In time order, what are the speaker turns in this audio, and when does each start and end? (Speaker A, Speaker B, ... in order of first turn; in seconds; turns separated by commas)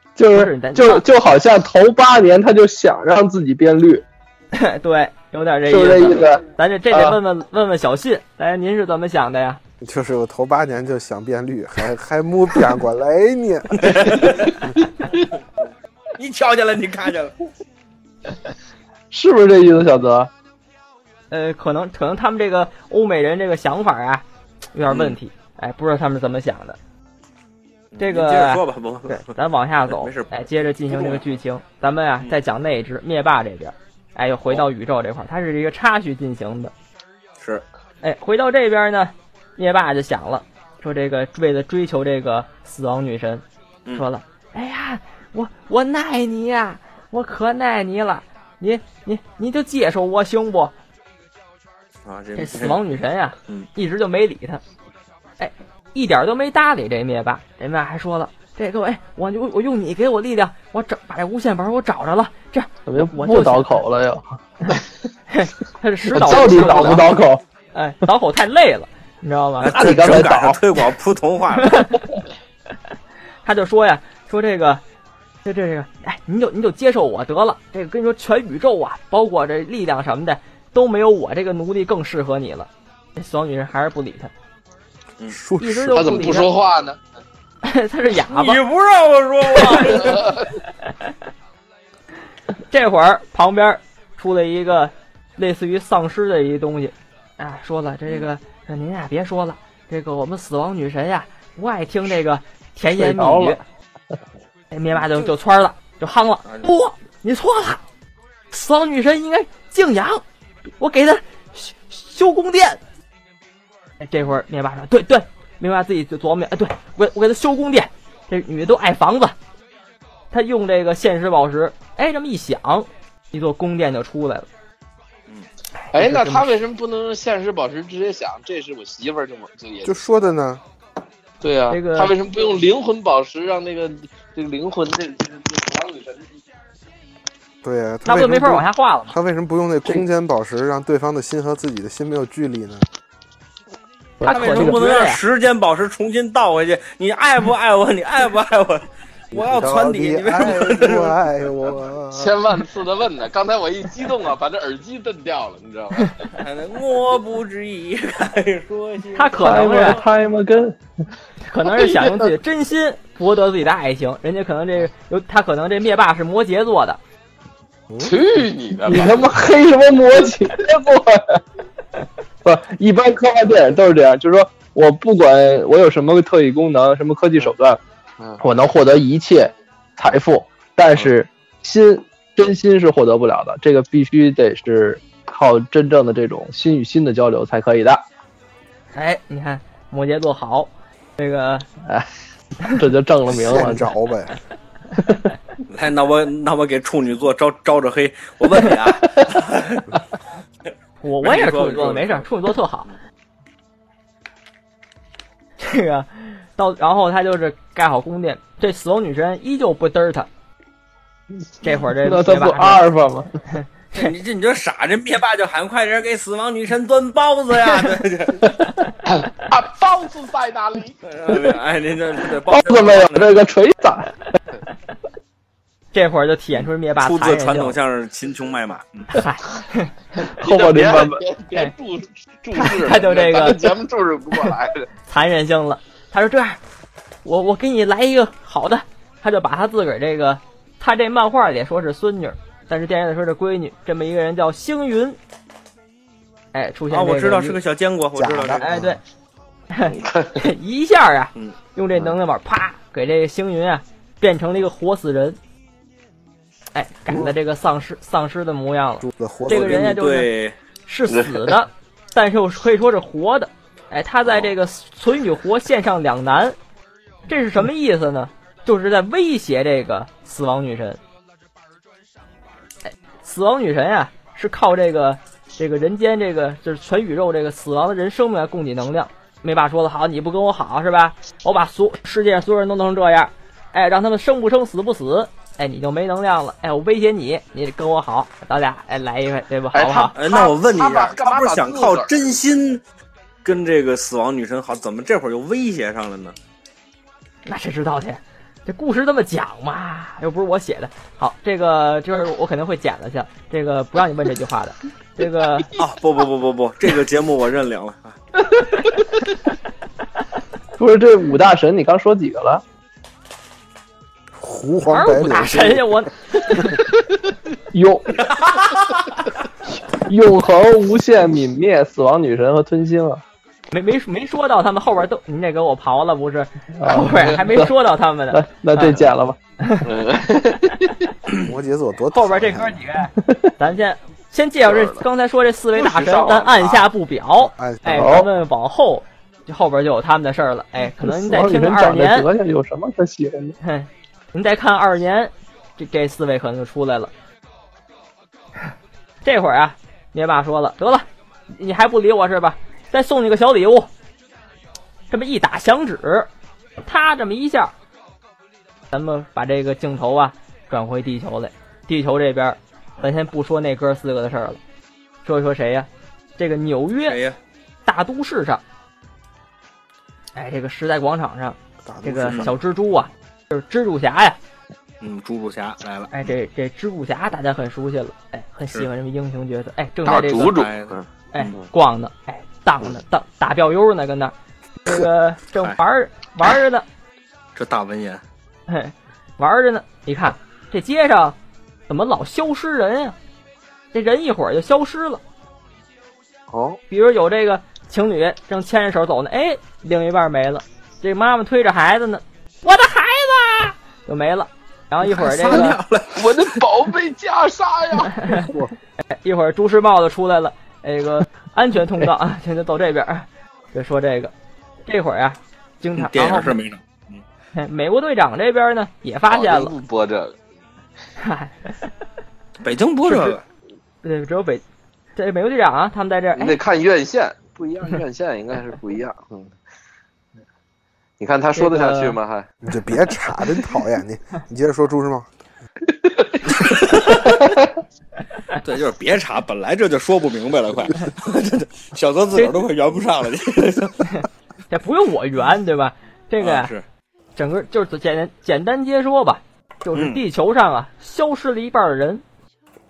Speaker A: 0.2-4.0, Speaker B: 0.3-1.1, Speaker B: 4.5-9.6, Speaker A: 5.7-7.2, Speaker C: 9.8-14.3, Speaker D: 13.7-14.6, Speaker D: 16.2-17.4, Speaker A: 19.1-20.3, Speaker B: 21.3-24.2, Speaker B: 24.7-26.8, Speaker D: 24.9-25.2, Speaker D: 27.9-29.3, Speaker B: 28.0-36.7, Speaker D: 29.9-30.3, Speaker D: 30.9-31.2, Speaker B: 38.0-50.7, Speaker D: 52.0-52.8, Speaker B: 52.4-54.6, Speaker B: 55.4-63.8, Speaker A: 62.9-64.4, Speaker B: 65.3-67.1, Speaker A: 66.1-67.4, Speaker B: 67.7-69.8, Speaker D: 69.6-71.8, Speaker A: 69.7-70.6, Speaker B: 71.6-71.9, Speaker B: 73.4-74.8, Speaker B: 75.4-84.3, Speaker C: 85.3-86.4, Speaker B: 85.6-86.5, Speaker E: 85.9-87.0, Speaker B: 87.6-88.6, Speaker D: 88.3-90.4, Speaker B: 89.5-90.1, Speaker E: 90.0-90.4, Speaker B: 92.7-103.6, Speaker A: 103.0-103.6, Speaker B: 104.7-107.8, Speaker B: 108.5-110.2, Speaker B: 110.8-112.8, Speaker B: 114.0-119.3, Speaker B: 120.3-124.5, Speaker B: 125.8-126.5, Speaker E: 125.9-129.9, Speaker C: 129.8-130.6, Speaker E: 131.4-136.3, Speaker B: 131.7-132.1, Speaker C: 137.6-142.8, Speaker B: 138.0-139.1, Speaker A: 144.2-144.8, Speaker B: 144.2-145.2, Speaker D: 144.2-151.2, Speaker C: 149.3-152.3, Speaker E: 152.1-156.2, Speaker D: 156.3-159.9, Speaker B: 159.1-160.0, Speaker A: 159.4-160.8, Speaker B: 161.4-167.0, Speaker C: 167.9-168.2, Speaker E: 168.0-169.3, Speaker A: 168.8-171.4, Speaker A: 172.4-177.8, Speaker A: 178.4-188.0, Speaker B: 188.9-191.7, Speaker A: 192.7-193.9, Speaker C: 193.4-194.4, Speaker D: 195.7-199.9, Speaker B: 201.0-202.9, Speaker D: 201.2-202.3, Speaker B: 205.6-210.3, Speaker B: 211.6-212.8, Speaker A: 212.0-213.3, Speaker B: 213.5-214.1, Speaker D: 213.9-218.6, Speaker E: 219.1-221.0, Speaker D: 221.0-223.3, Speaker A: 222.5-224.2, Speaker B: 225.9-227.8, Speaker D: 227.0-229.1, Speaker B: 229.1-230.2, Speaker A: 230.4-231.2, Speaker E: 230.4-234.9, Speaker B: 232.5-233.7, Speaker B: 235.1-236.6, Speaker B: 237.2-245.2, Speaker B: 246.5-247.6, Speaker D: 246.9-248.8, Speaker C: 248.1-249.0, Speaker B: 248.6-249.0, Speaker B: 249.7-255.4, Speaker B: 256.7-260.3, Speaker C: 259.0-259.9, Speaker D: 259.5-260.5, Speaker B: 260.9-266.6, Speaker E: 261.1-261.5, Speaker B: 267.3-271.0, Speaker B: 272.9-290.1, Speaker E: 289.7-292.1, Speaker D: 290.1-292.8, Speaker D: 293.4-296.4, Speaker B: 297.4-305.7, Speaker D: 305.8-308.2, Speaker A: 310.8-312.6, Speaker C: 314.4-316.0, Speaker B: 314.9-316.8, Speaker A: 317.7-318.2, Speaker A: 320.0-323.2, Speaker B: 323.7-329.1, Speaker A: 326.8-327.7, Speaker A: 328.3-329.4, Speaker B: 329.6-329.9, Speaker E: 329.8-331.1, Speaker C: 331.4-332.8, Speaker B: 332.1-342.3, Speaker A: 333.2-333.5, Speaker E: 334.6-335.0, Speaker E: 335.7-336.9, Speaker C: 337.4-338.1, Speaker A: 338.0-338.3, Speaker A: 341.0-343.6, Speaker B: 343.6-347.1, Speaker B: 349.2-353.9, Speaker B: 355.1-357.7, Speaker B: 358.9-364.6, Speaker B: 365.2-367.2, Speaker D: 367.1-367.4, Speaker B: 367.9-368.6, Speaker B: 370.4-374.4, Speaker C: 371.9-372.5, Speaker D: 372.3-372.5, Speaker D: 375.0-376.1, Speaker B: 376.1-380.6, Speaker E: 380.1-381.0, Speaker D: 380.4-381.5, Speaker B: 381.3-386.9, Speaker D: 387.5-388.2, Speaker B: 388.7-391.4, Speaker B: 391.9-393.1, Speaker B: 393.9-395.2, Speaker E: 396.5-396.8, Speaker B: 396.9-405.8, Speaker D: 405.0-406.6, Speaker E: 406.1-408.4, Speaker B: 408.2-408.5, Speaker B: 409.1-414.3, Speaker B: 414.9-416.5, Speaker D: 416.0-417.2, Speaker B: 417.5-419.7, Speaker E: 419.3-420.4, Speaker B: 421.2-421.7, Speaker D: 422.6-423.4, Speaker B: 423.1-423.4, Speaker B: 424.0-424.6, Speaker B: 425.1-426.6, Speaker E: 426.3-429.5, Speaker E: 431.2-432.5, Speaker B: 431.6-432.1, Speaker C: 432.6-435.3, Speaker D: 436.5-437.4, Speaker D: 438.5-444.1, Speaker B: 444.1-446.7, Speaker D: 446.4-446.8, Speaker B: 447.4-452.2, Speaker D: 449.9-450.2